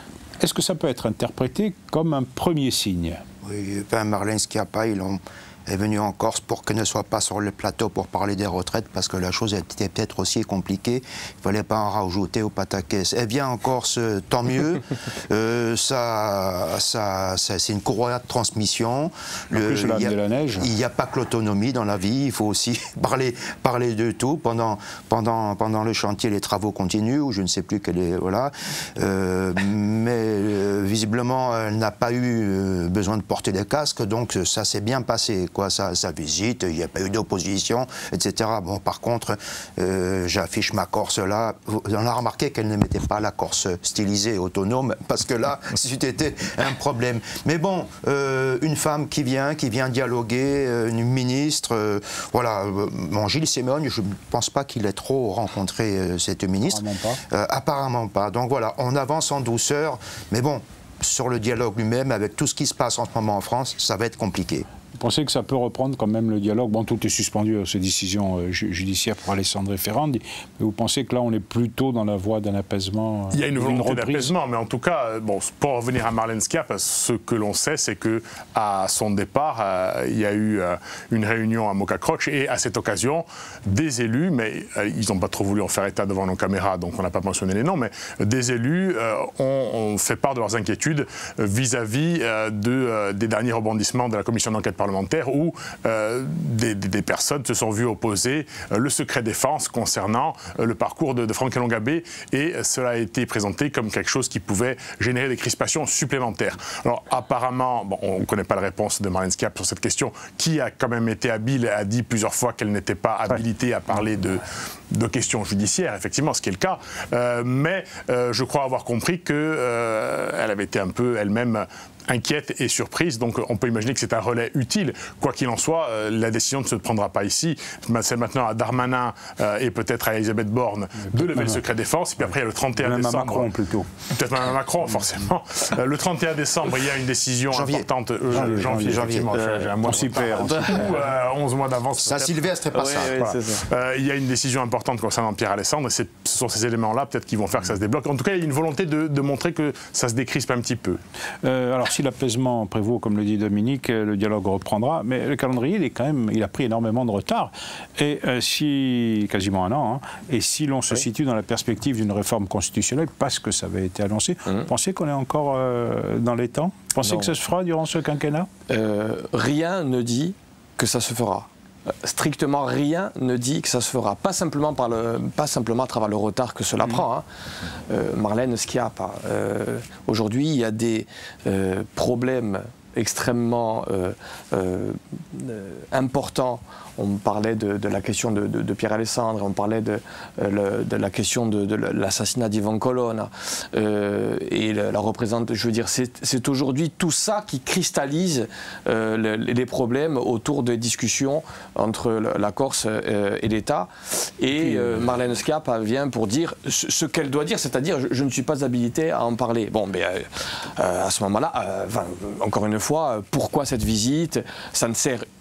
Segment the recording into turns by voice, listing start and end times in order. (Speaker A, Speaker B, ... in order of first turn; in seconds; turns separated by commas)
Speaker A: 0.4-3.2, Speaker B: 3.4-64.7, Speaker A: 19.5-20.7, Speaker A: 56.6-57.2, Speaker A: 65.0-74.3, Speaker C: 73.3-133.5, Speaker A: 131.1-131.6, Speaker A: 132.8-133.9, Speaker C: 134.1-151.0, Speaker B: 137.5-139.3, Speaker A: 138.3-139.2, Speaker D: 139.3-141.0, Speaker A: 139.8-141.0, Speaker B: 142.0-143.2, Speaker D: 142.7-143.6, Speaker A: 151.4-168.5, Speaker D: 167.0-167.3, Speaker D: 168.7-171.5, Speaker D: 172.0-177.2, Speaker D: 177.9-215.2, Speaker A: 204.5-205.0